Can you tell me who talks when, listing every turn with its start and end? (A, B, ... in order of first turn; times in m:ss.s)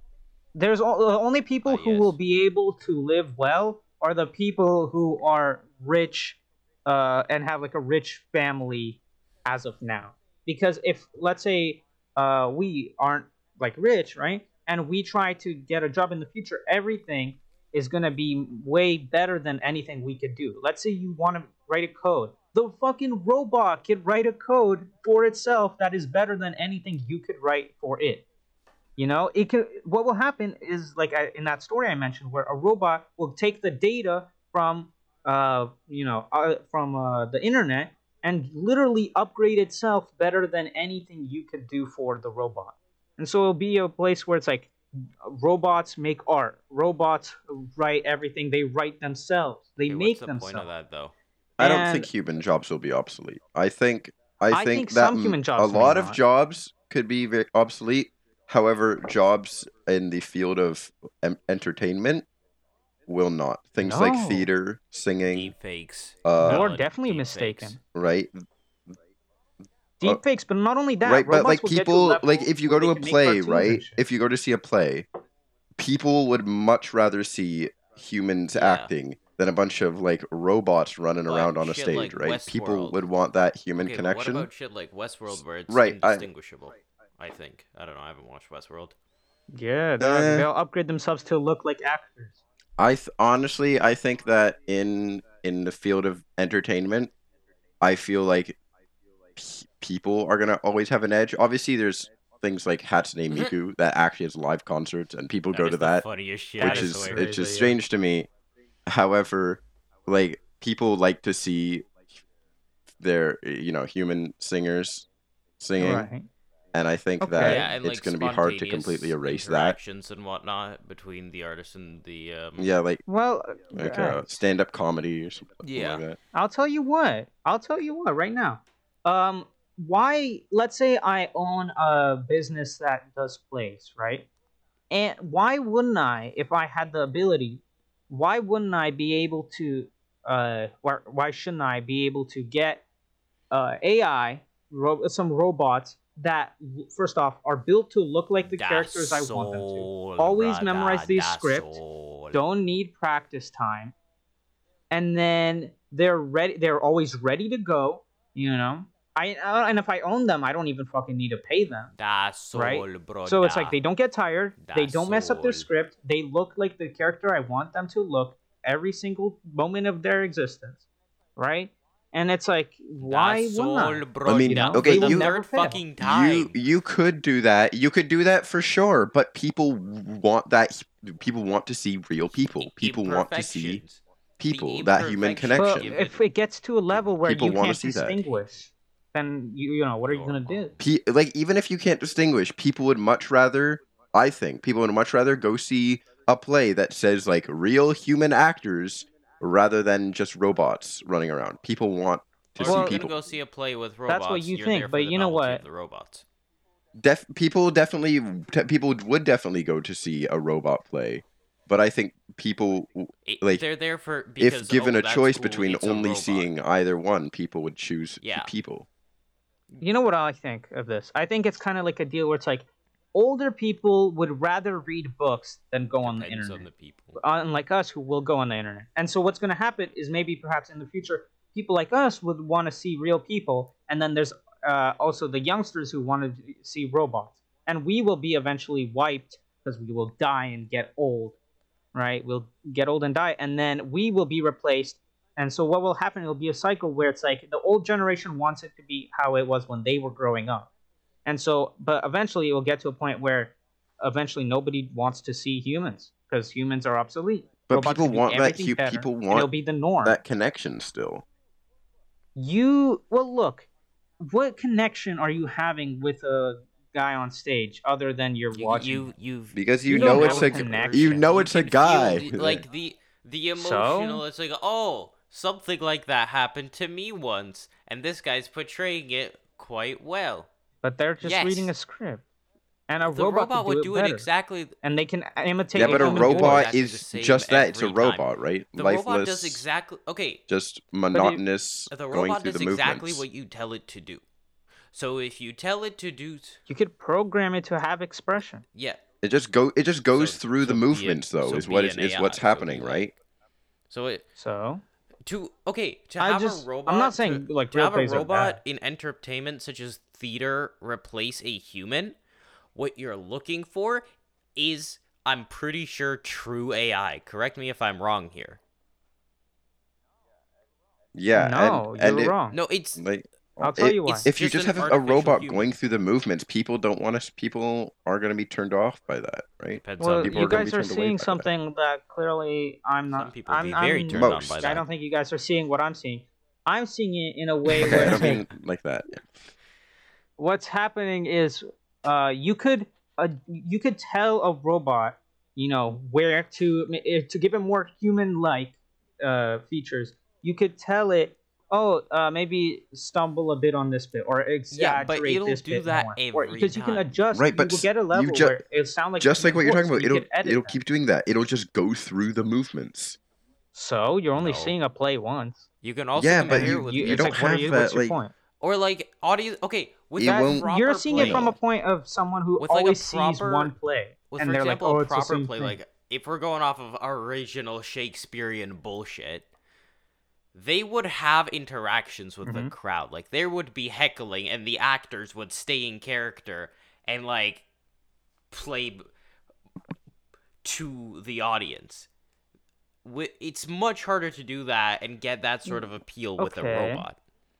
0:00.6-0:28.2 A
0:01.6-0:02.2 B
0:29.0-0:50.7 A
0:49.9-0:51.1 B
0:51.6-1:02.3 C
0:51.6-0:52.1 A
0:54.5-0:56.2 A
1:03.1-1:05.6 C
1:03.8-1:04.5 A
1:05.3-1:07.8 B
1:06.2-1:06.7 C
1:06.4-1:07.8 A
1:07.9-1:08.9 C
1:10.0-1:14.0 A
1:11.0-1:15.1 C
1:15.8-1:24.5 C
1:18.5-1:18.9 B
1:21.3-1:23.0 B
1:23.8-1:29.0 B
1:25.3-1:26.3 C
1:29.5-1:32.4 A
1:30.0-1:30.5 C
1:32.8-1:37.1 C
1:37.8-1:38.6 C
1:39.4-1:46.0 C
1:45.5-1:47.4 B
1:46.6-1:47.8 A
1:46.6-1:48.3 C
1:48.9-1:51.9 C
1:53.0-1:55.1 C
1:55.6-1:56.1 C
1:55.8-1:56.3 A
1:56.7-1:59.8 C
1:57.2-1:57.7 A
1:57.4-2:02.7 B
2:02.6-2:03.0 C
2:03.1-2:04.4 A
2:03.7-2:06.2 C
2:05.6-2:06.0 B
2:06.3-2:14.3 A
2:14.9-2:22.8 A
2:23.5-2:31.8 A
2:28.4-2:32.4 B
2:32.3-2:33.9 A
2:34.9-2:41.9 A
2:41.9-2:43.8 B
2:42.5-2:50.8 A
2:44.6-2:45.7 B
2:51.4-2:55.8 A
2:53.0-2:56.5 B
2:54.2-3:03.8 C
3:02.6-3:06.2 B
3:04.4-3:05.9 C
3:05.6-3:10.7 A
3:06.9-3:08.6 B
3:07.2-3:08.2 C
3:10.0-3:10.9 B
3:10.8-3:23.2 C
3:22.6-3:26.2 B
3:22.6-3:23.0 A
3:24.1-3:25.6 A
3:27.0-3:33.6 C
3:33.3-3:36.5 B
3:34.4-3:38.9 C
3:38.2-3:38.5 B
3:39.8-4:01.4 A
3:46.0-3:47.2 B
4:01.9-4:10.7 A
4:11.2-4:20.2 A
4:17.7-4:19.5 C
4:20.0-4:21.2 C
4:22.4-4:23.7 A
4:24.2-4:29.1 A
4:28.5-4:40.5 B
4:29.5-4:32.6 C
4:29.9-4:31.2 A
4:33.6-4:34.2 A
4:40.8-4:42.2 A
4:41.2-4:41.7 B
4:42.9-4:44.3 A
4:43.1-4:44.7 B
4:44.8-4:46.7 A
4:45.8-4:49.6 C
4:45.8-4:50.4 B
4:50.5-4:53.3 C
4:51.1-4:51.4 A
4:51.9-4:54.2 B
4:54.9-4:56.6 B
4:56.7-4:58.6 A
4:58.7-4:59.0 B
4:59.2-5:03.2 C
5:00.1-5:03.2 B
5:03.9-5:04.2 B
5:04.4-5:04.8 A
5:05.2-5:12.2 B
5:06.2-5:08.6 A
5:12.8-5:14.0 B
5:14.6-5:18.6 B
5:21.2-5:22.4 C
5:21.4-5:22.6 A
5:22.5-5:23.0 B
5:23.0-5:31.5 C
5:23.6-5:24.3 A
5:24.1-5:25.7 B
5:29.8-5:30.6 B
5:30.0-5:38.3 A
5:33.1-5:34.8 B
5:34.1-5:34.8 C
5:37.9-5:39.3 C
5:40.4-6:00.8 A
5:54.7-5:57.1 B
5:57.3-5:58.6 C
5:59.2-6:03.2 C
6:03.7-6:05.7 A
6:04.4-6:04.8 B
6:05.8-6:07.8 B
6:06.2-6:08.2 C
6:06.5-6:08.3 A
6:08.6-6:11.5 B
6:10.2-6:11.6 C
6:10.2-6:15.8 A
6:12.6-6:13.7 B
6:14.3-6:19.5 B
6:20.5-6:27.6 B
6:22.4-6:22.7 A
6:28.5-6:29.1 B
6:30.6-6:32.1 B
6:33.0-6:37.2 B
6:35.7-6:37.1 A